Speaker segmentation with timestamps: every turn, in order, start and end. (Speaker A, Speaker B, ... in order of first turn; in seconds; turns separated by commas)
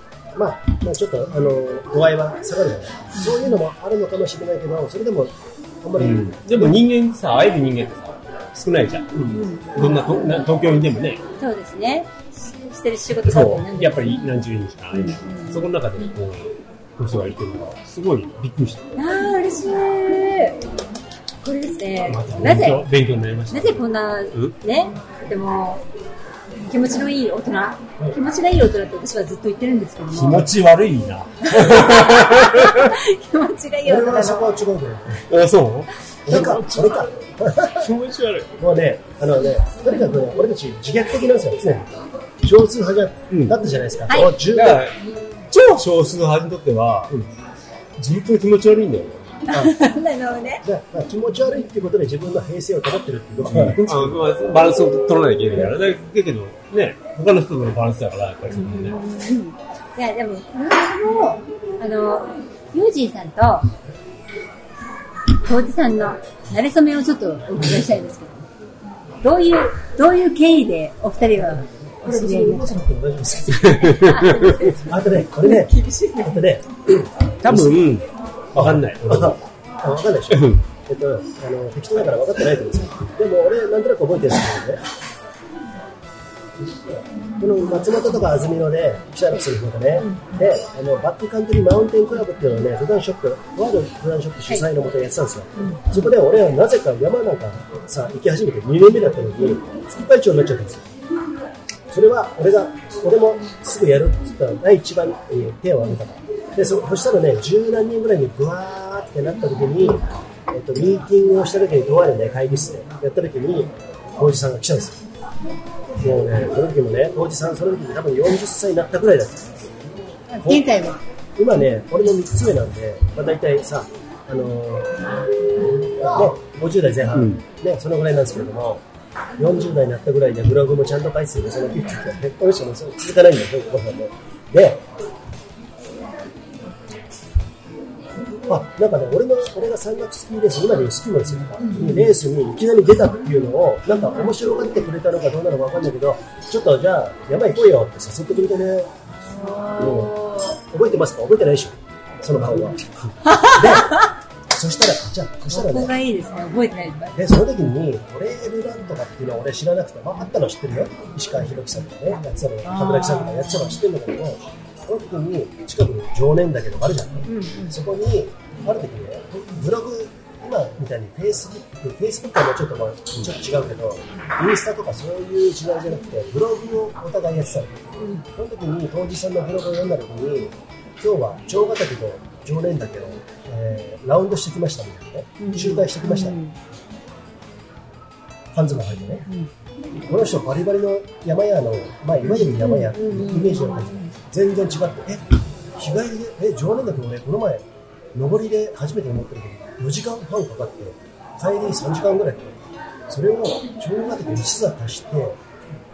Speaker A: 0.3-6.8, Speaker B: 6.0-9.1, Speaker A: 9.1-9.4, Speaker C: 9.3-10.4, Speaker B: 9.8-11.2, Speaker C: 11.4-14.2, Speaker B: 13.2-18.8, Speaker C: 14.9-15.7, Speaker C: 18.9-20.6, Speaker C: 21.4-22.9, Speaker B: 22.1-24.5, Speaker C: 23.5-25.8, Speaker C: 26.7-30.5, Speaker B: 30.1-32.9, Speaker C: 31.5-34.5, Speaker A: 33.8-35.2, Speaker B: 35.3-37.1, Speaker A: 36.2-37.9, Speaker B: 37.7-38.5, Speaker A: 38.6-41.9, Speaker A: 42.4-44.9, Speaker B: 43.3-43.6, Speaker B: 44.4-45.0, Speaker C: 45.5-45.8, Speaker B: 45.7-47.1, Speaker B: 48.0-49.4, Speaker C: 49.5-50.6, Speaker A: 50.6-54.1, Speaker B: 53.4-59.0, Speaker C: 58.5-63.7, Speaker C: 65.4-68.5, Speaker C: 69.2-72.7, Speaker A: 72.0-77.8, Speaker B: 73.5-74.5, Speaker C: 74.0-76.4, Speaker B: 77.4-79.4, Speaker A: 78.5-84.8, Speaker B: 80.3-80.6, Speaker A: 87.4-100.8, Speaker C: 90.0-90.3, Speaker C: 95.6-95.9, Speaker A: 101.9-115.0, Speaker A: 116.0-119.7, Speaker C: 120.3-121.0, Speaker A: 120.4-125.1, Speaker A: 125.7-128.8, Speaker B: 127.1-127.4, Speaker A: 129.4-134.8, Speaker A: 138.4-148.9, Speaker C: 149.3-150.6, Speaker A: 149.7-155.9, Speaker C: 153.2-154.1, Speaker C: 155.5-157.4, Speaker A: 157.1-177.7, Speaker C: 162.6-163.8, Speaker C: 167.3-167.8, Speaker C: 178.0-178.2, Speaker A: 178.3-186.4, Speaker C: 185.4-186.6, Speaker A: 188.5-189.2, Speaker A: 190.1-202.6, Speaker C: 192.3-194.1, Speaker A: 203.1-205.4